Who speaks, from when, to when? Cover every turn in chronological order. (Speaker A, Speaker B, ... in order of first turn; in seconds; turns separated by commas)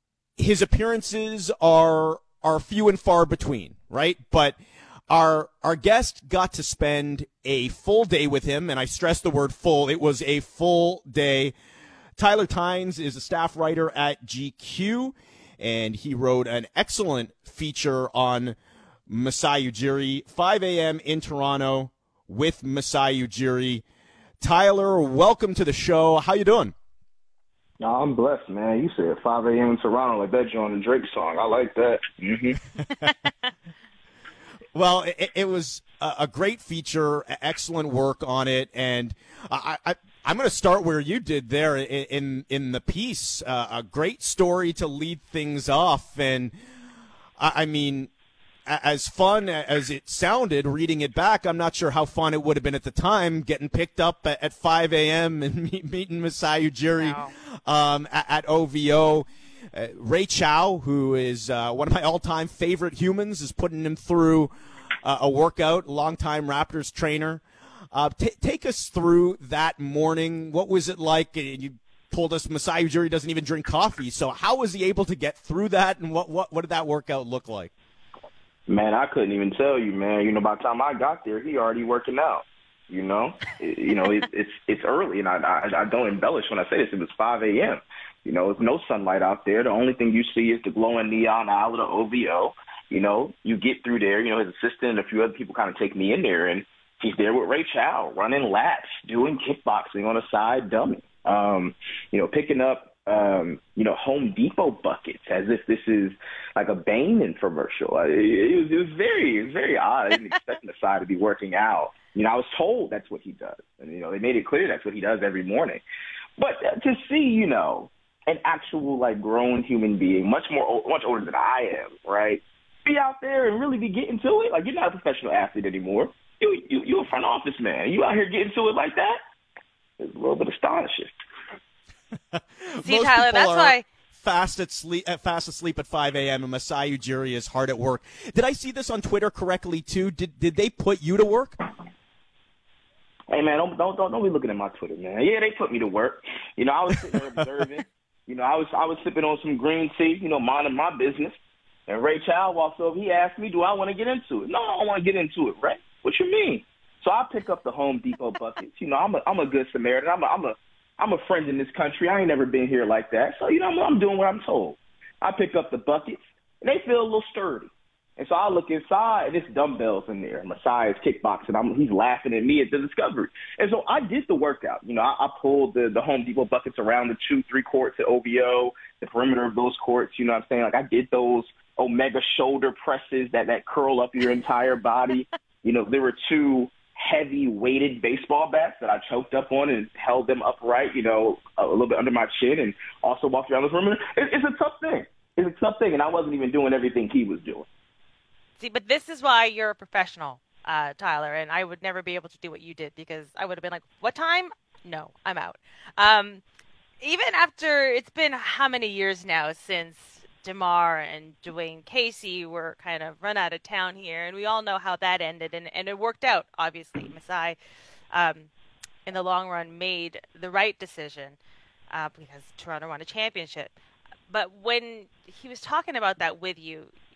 Speaker A: 0.4-4.6, Speaker A: 5.1-11.5, Speaker A: 12.2-18.6, Speaker A: 19.1-23.8, Speaker A: 24.4-26.7, Speaker B: 27.8-32.6, Speaker C: 33.0-33.3, Speaker A: 34.7-46.5, Speaker A: 47.4-48.1, Speaker A: 48.6-64.5, Speaker C: 57.0-57.3, Speaker A: 65.0-67.4, Speaker A: 67.9-77.7, Speaker B: 78.7-115.8, Speaker B: 116.4-129.2, Speaker B: 130.0-131.1, Speaker A: 132.3-141.6, Speaker C: 132.8-133.8, Speaker B: 143.3-151.3, Speaker B: 151.9-197.7, Speaker C: 198.6-206.4, Speaker C: 207.0-217.6, Speaker C: 218.1-218.5, Speaker C: 219.1-221.4, Speaker C: 221.9-223.7, Speaker C: 224.3-226.9